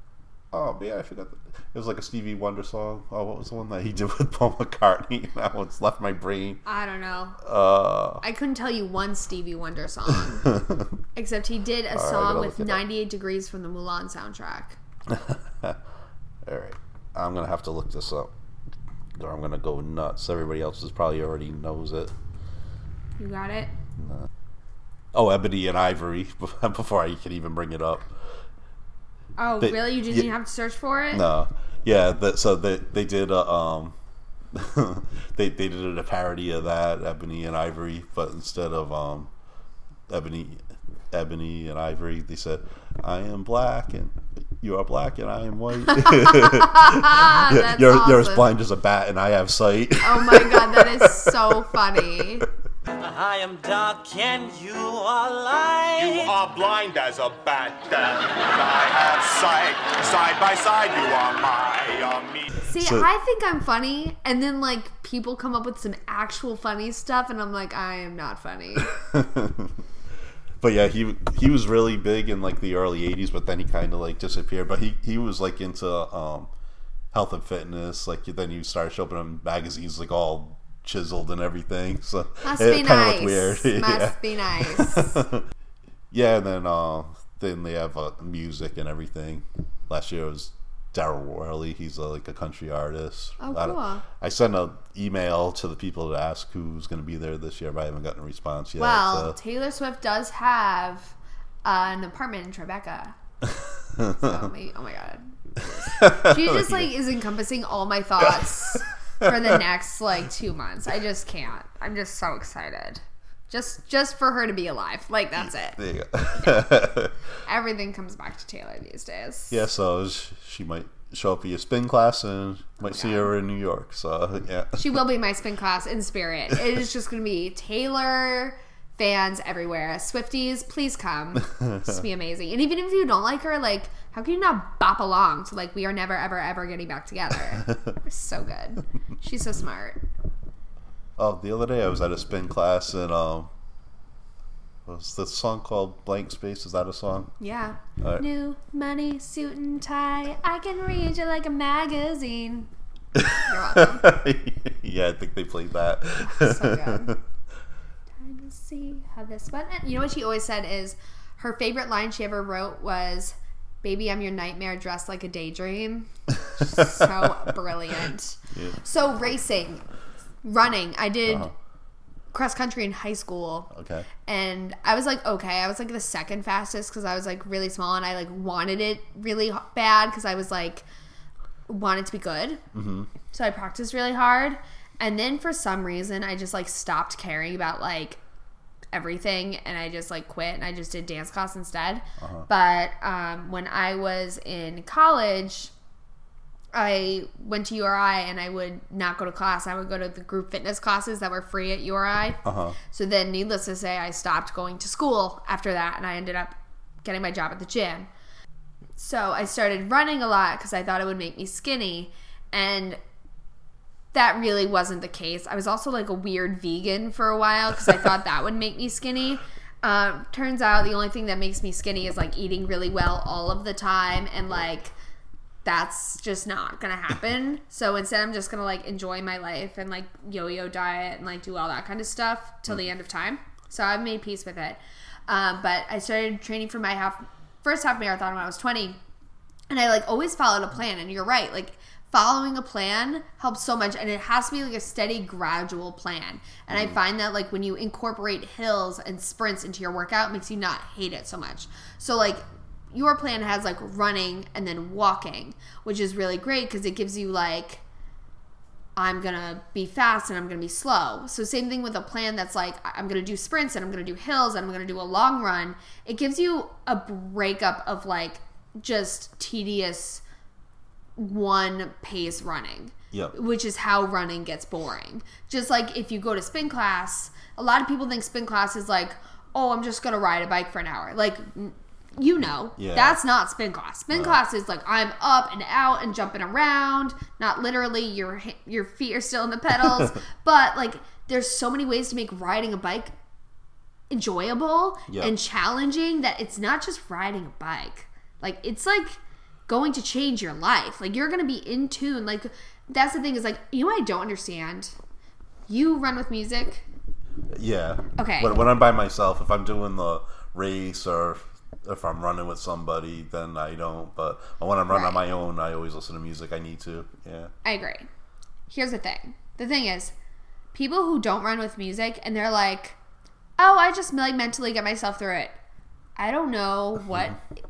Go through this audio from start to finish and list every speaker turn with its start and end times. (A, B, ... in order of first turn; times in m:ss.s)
0:00.5-0:06.6 A
0:06.7-0:07.4 B
0:07.4-0:08.2 A
0:08.2-0:10.5 B
0:10.2-0:11.0 A
0:11.2-0:14.8 B
0:11.9-0:12.8 A
0:15.1-0:15.8 A
0:16.4-0:18.3 A
0:19.2-0:22.1 A
0:23.2-0:23.7 B
0:25.1-0:28.1 A
0:29.4-0:31.2 B
0:29.6-0:30.3 A
0:31.1-0:34.0 A
0:34.5-0:39.3 A
0:40.1-0:52.4 A
0:45.8-0:48.5 B
0:50.0-0:52.4 B
0:53.0-0:56.4 C
0:56.0-1:02.5 D
1:02.6-1:08.9 B
1:02.8-1:03.1 A
1:08.8-1:09.8 A
1:10.6-1:16.5 A
1:17.1-1:25.4 A
1:22.4-1:25.2 B
1:26.1-1:39.4 A
1:33.4-1:34.0 B
1:38.8-1:43.2 B
1:43.5-1:44.4 A
1:44.1-1:55.8 B
1:45.8-1:46.9 A
1:48.3-1:49.4 A
1:55.4-1:57.1 A
1:56.4-1:56.7 B
1:57.4-1:59.6 B
1:59.5-2:04.9 A
2:02.8-2:03.3 B
2:04.8-2:20.0 B
2:11.4-2:12.0 A
2:17.6-2:17.9 A
2:21.2-2:23.5 A
2:24.9-2:27.3 A
2:27.4-2:32.7 B
2:28.0-2:28.3 A
2:33.1-2:37.2 A
2:33.4-2:34.0 B
2:36.2-2:37.2 B
2:38.2-2:49.8 B
2:46.4-2:47.5 A
2:48.5-2:48.8 A
2:50.4-2:51.5 B
2:51.3-2:51.5 A
2:52.3-2:53.7 B
2:53.7-2:54.1 A
2:54.3-3:00.8 B
3:01.7-3:02.6 B
3:02.7-3:03.1 A
3:03.3-3:08.2 B
3:08.9-3:15.7 B
3:12.2-3:12.5 A
3:16.7-3:28.1 B
3:22.4-3:22.8 A
3:29.0-3:33.0 B
3:34.1-3:44.9 B
3:45.6-3:59.0 B
3:59.7-4:17.8 B
4:06.7-4:07.0 A
4:19.0-4:30.2 B
4:31.2-4:53.1 B
4:42.8-4:43.2 A
4:44.1-4:44.4 A
4:49.9-4:50.1 A
4:54.1-5:05.0 B
5:05.7-5:06.8 B
5:07.5-5:17.5 A
5:08.2-5:08.6 B
5:14.9-5:15.2 B
5:17.6-5:18.1 B
5:18.7-5:20.1 B
5:20.7-5:23.0 B
5:23.6-5:25.6 B
5:26.2-5:27.4 B